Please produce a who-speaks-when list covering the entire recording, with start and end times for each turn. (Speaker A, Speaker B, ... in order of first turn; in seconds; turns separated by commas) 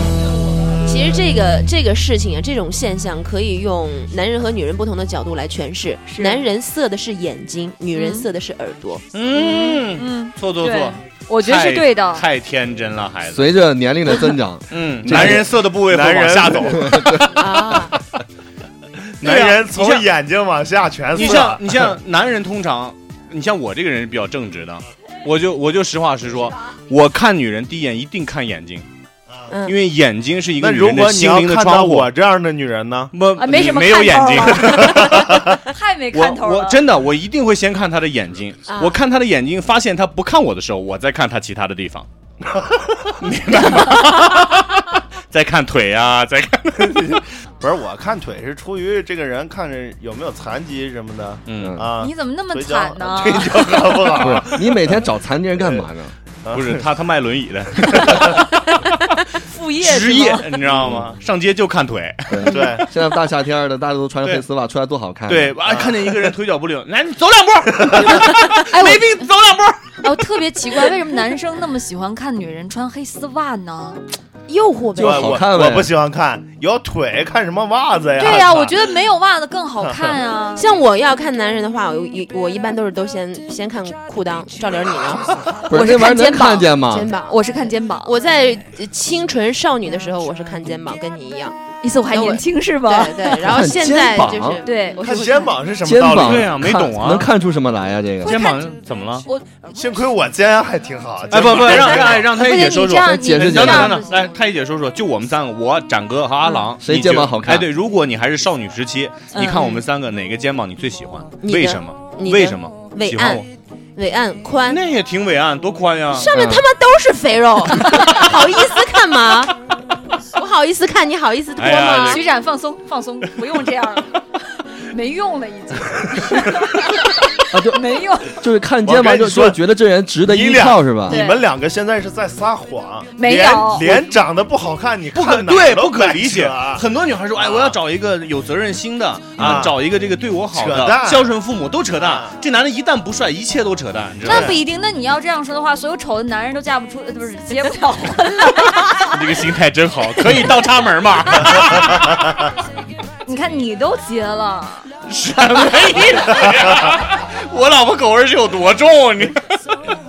Speaker A: 0.8-9.0, Speaker B: 6.1-6.5, Speaker B: 7.9-8.3, Speaker C: 9.1-13.5, Speaker B: 9.3-12.2, Speaker D: 13.3-15.5, Speaker C: 14.7-17.4, Speaker E: 15.2-17.0, Speaker D: 16.8-17.3, Speaker A: 17.2-17.9, Speaker E: 19.2-21.6, Speaker C: 19.2-20.1, Speaker C: 21.1-28.9, Speaker A: 29.5-29.8, Speaker C: 29.7-32.1, Speaker E: 30.6-33.1, Speaker C: 33.1-35.5, Speaker B: 33.4-36.9, Speaker E: 35.2-35.6, Speaker C: 36.1-42.1, Speaker A: 38.7-39.0, Speaker E: 42.4-43.1, Speaker C: 43.2-47.2, Speaker E: 46.8-54.7, Speaker C: 51.5-51.8, Speaker D: 51.6-51.9, Speaker B: 52.0-54.1, Speaker D: 54.2-56.1, Speaker E: 56.4-56.8, Speaker C: 56.5-58.4, Speaker B: 57.9-58.4, Speaker B: 59.3-60.5, Speaker C: 59.8-62.5, Speaker E: 60.7-61.0, Speaker D: 60.8-61.1, Speaker D: 62.3-65.5, Speaker E: 62.5-62.9, Speaker C: 65.3-70.0, Speaker E: 65.6-66.3, Speaker E: 67.9-68.2, Speaker B: 68.6-69.2, Speaker B: 70.0-74.0, Speaker A: 74.5-75.4, Speaker D: 75.0-75.9, Speaker E: 75.0-79.0, Speaker B: 78.2-80.7, Speaker E: 79.8-80.2, Speaker A: 80.6-91.6, Speaker D: 85.7-87.1, Speaker B: 85.7-86.3, Speaker B: 87.2-88.2, Speaker B: 91.8-93.5, Speaker A: 92.1-95.2, Speaker D: 93.3-94.6, Speaker B: 94.6-95.6, Speaker E: 95.0-96.5, Speaker D: 95.8-98.4, Speaker C: 96.1-97.3, Speaker B: 98.2-98.7, Speaker C: 98.2-99.3, Speaker B: 99.2-100.0, Speaker E: 99.7-102.4, Speaker C: 101.3-113.5, Speaker B: 101.5-104.3, Speaker D: 103.0-104.0, Speaker B: 106.4-106.7, Speaker D: 106.8-107.7, Speaker B: 109.3-109.7, Speaker A: 109.5-109.8, Speaker A: 111.4-114.8, Speaker C: 114.7-116.3, Speaker A: 116.1-119.5, Speaker D: 116.3-116.7, Speaker A: 120.3-122.2, Speaker C: 121.6-122.2, Speaker B: 121.9-128.4, Speaker D: 127.5-131.2, Speaker E: 128.8-129.6, Speaker E: 130.2-136.8, Speaker B: 131.1-131.4, Speaker B: 133.2-134.1, Speaker C: 135.2-144.6, Speaker E: 137.4-137.8, Speaker E: 139.4-139.8, Speaker D: 139.4-139.7, Speaker E: 140.5-141.3, Speaker E: 141.9-142.3, Speaker E: 144.2-144.6, Speaker B: 144.2-149.2, Speaker C: 149.0-152.4, Speaker B: 153.2-154.9, Speaker C: 155.1-159.6